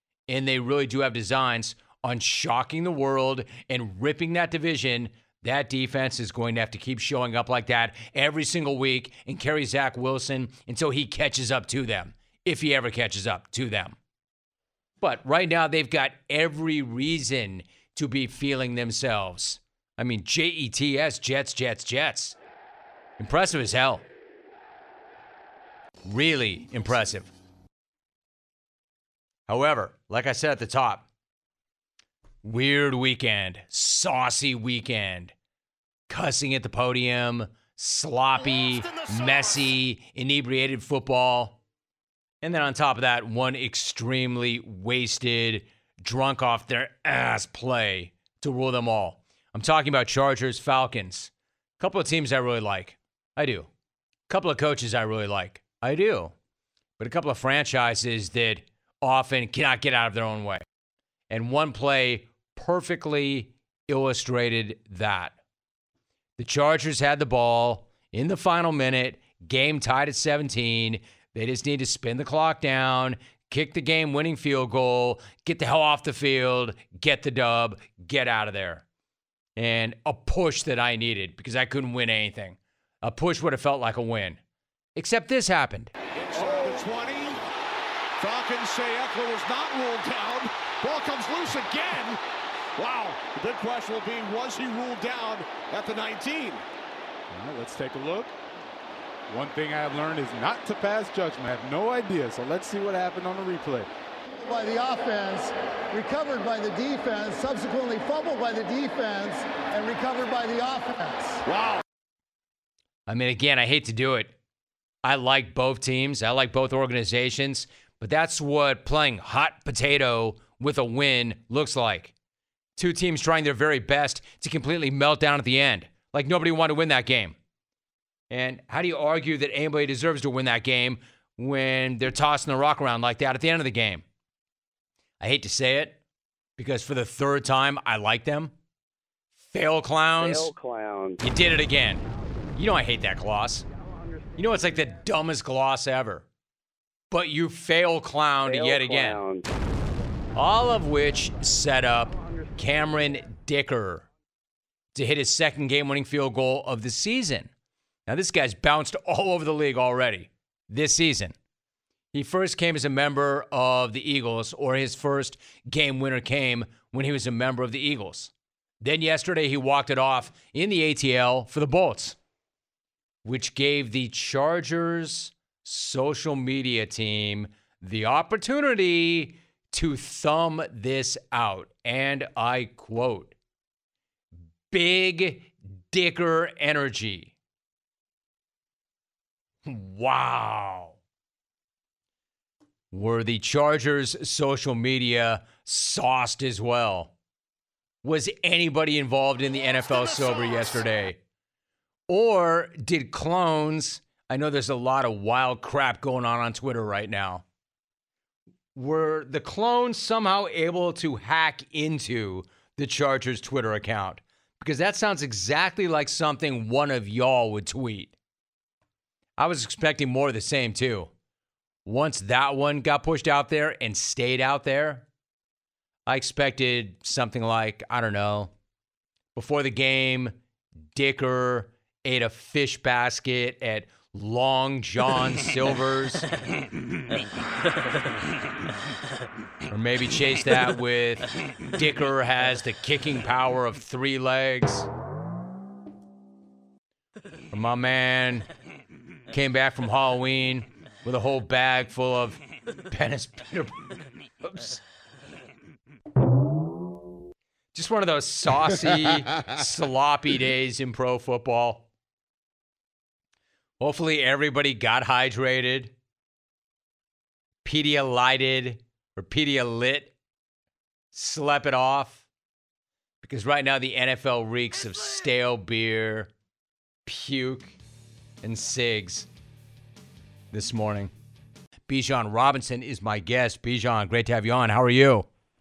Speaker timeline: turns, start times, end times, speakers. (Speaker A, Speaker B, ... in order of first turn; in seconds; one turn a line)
Speaker A: 0.3-14.0
Speaker A: 15.0-22.4
Speaker A: 23.2-24.1
Speaker A: 26.1-27.3
Speaker A: 29.5-31.1
Speaker A: 32.4-35.3
Speaker A: 36.1-41.6
Speaker A: 42.4-53.7
Speaker A: 54.3-56.3
Speaker A: 57.0-60.6
Speaker A: 61.3-65.3
Speaker A: 66.4-78.8
Speaker A: 79.6-84.4
Speaker A: 85.0-85.9
Speaker B: 86.3-87.2
Speaker C: 86.3-86.8
Speaker B: 88.2-91.8
Speaker B: 92.8-93.2
Speaker C: 93.4-94.0
Speaker B: 95.6-96.6
Speaker C: 97.3-98.3
Speaker C: 99.3-103.9
Speaker D: 104.3-111.4
Speaker A: 113.1-114.3
Speaker A: 115.0-122.1
Speaker A: 122.8-127.3
Speaker A: 128.3-134.0
Speaker A: 135.2-136.0
Speaker A: 136.6-138.5
Speaker A: 139.5-140.5
Speaker E: 140.2-141.2
Speaker A: 141.2-142.0
Speaker A: 142.6-143.6
Speaker E: 143.9-144.5
Speaker A: 144.4-146.2
Speaker A: 147.1-149.2
Speaker E: 148.4-149.4
Speaker A: 150.3-154.0
Speaker E: 152.1-152.8
Speaker A: 154.9-157.5
Speaker A: 158.1-161.3
Speaker A: 162.1-172.2
Speaker A: 173.2-183.3
Speaker A: 184.7-187.3
Speaker A: 189.6-191.0
Speaker A: 192.9-197.1
Speaker A: 198.0-201.2
Speaker A: 202.1-207.4
Speaker A: 208.7-218.1
Speaker A: 219.4-221.1
Speaker A: 221.8-225.1
Speaker A: 226.1-228.5
Speaker A: 229.3-230.3
Speaker A: 230.9-236.3
Speaker A: 239.7-244.9
Speaker A: 247.5-248.4
Speaker A: 249.3-253.9
Speaker A: 254.4-254.8
Speaker A: 257.7-261.9
Speaker A: 263.8-265.9
Speaker A: 267.6-270.1
Speaker A: 271.1-272.2
Speaker A: 273.2-276.3
Speaker A: 277.1-277.8
Speaker A: 278.4-279.3
Speaker A: 280.5-281.1
Speaker A: 281.9-285.2